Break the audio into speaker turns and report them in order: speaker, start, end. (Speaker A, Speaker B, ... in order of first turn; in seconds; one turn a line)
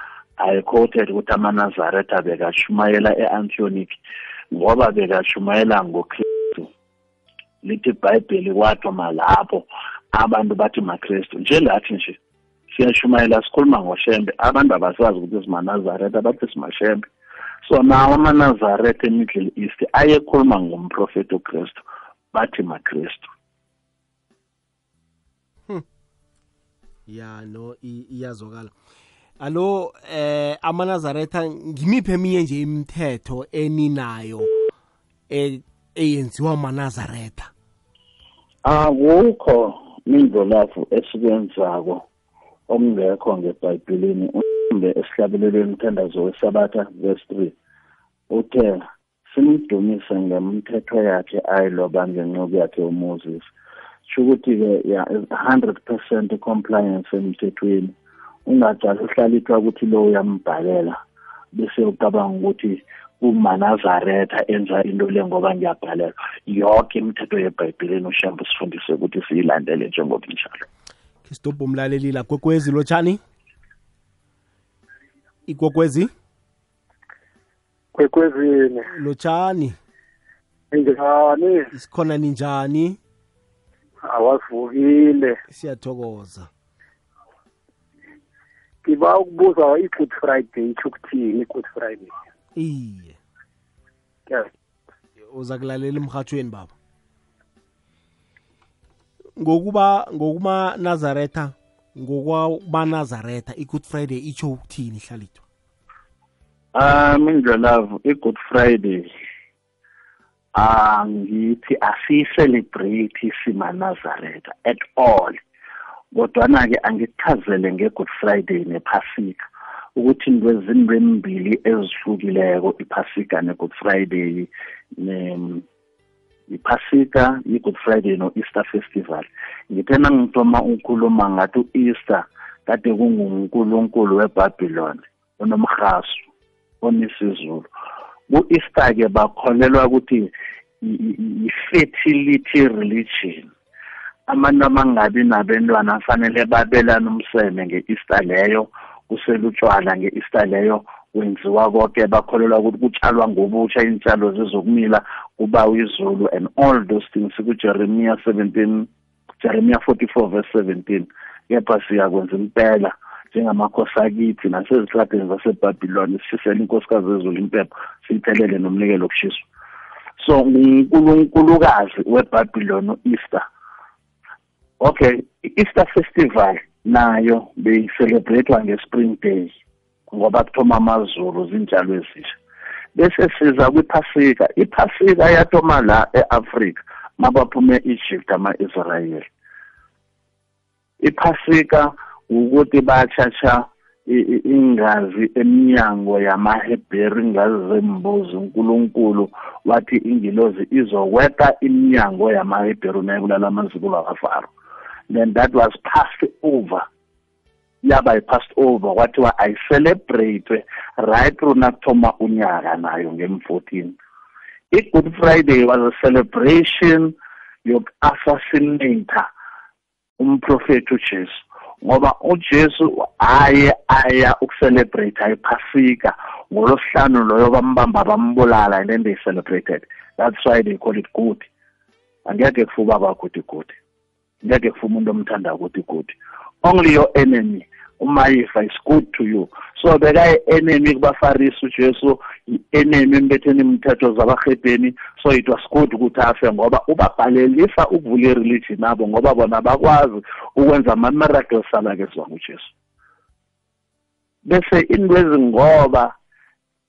Speaker A: 0.4-4.0
Speaker A: 4.5-6.7
Speaker A: 7.6-12.2
Speaker A: 12.7-17.1
Speaker A: 17.6-23.3
Speaker B: 27.1-28.7
Speaker B: 29.4-34.5
Speaker B: 35.3-37.5
Speaker A: 38.6-42.0
Speaker A: 42.7-47.5
Speaker A: 48.3-53.5
Speaker A: 54.1-57.9
Speaker A: 58.5-61.0
Speaker A: 61.5-70.7
Speaker B: 71.2-73.2
Speaker B: 75.5-76.1
Speaker C: 77.9-78.9
Speaker B: 78.9-79.8
Speaker C: 80.7-81.7
Speaker B: 81.7-83.0
Speaker C: 84.0-85.4
Speaker B: 85.5-86.5
Speaker C: 88.8-92.1
Speaker B: 92.5-93.2
Speaker B: 95.3-96.7
Speaker B: 99.4-105.4
Speaker A: 106.7-109.1
Speaker A: 110.5-115.4
Speaker A: 116.1-119.4
Speaker A: 120.0-125.6
Speaker A: 126.5-136.3
Speaker A: 136.8-137.7
Speaker A: 138.3-143.5
Speaker A: 144.3-158.9
Speaker A: 159.4-169.4
Speaker A: 170.2-173.5
Speaker A: 174.8-179.5
Speaker A: 180.1-182.4
Speaker A: 182.9-189.3
Speaker A: 191.0-204.5
Speaker A: 205.1-206.9
Speaker A: 207.8-213.9
Speaker A: 214.7-219.3
Speaker A: 220.2-231.5
Speaker A: 232.2-233.8
Speaker A: 234.4-252.7
Speaker A: 254.4-256.1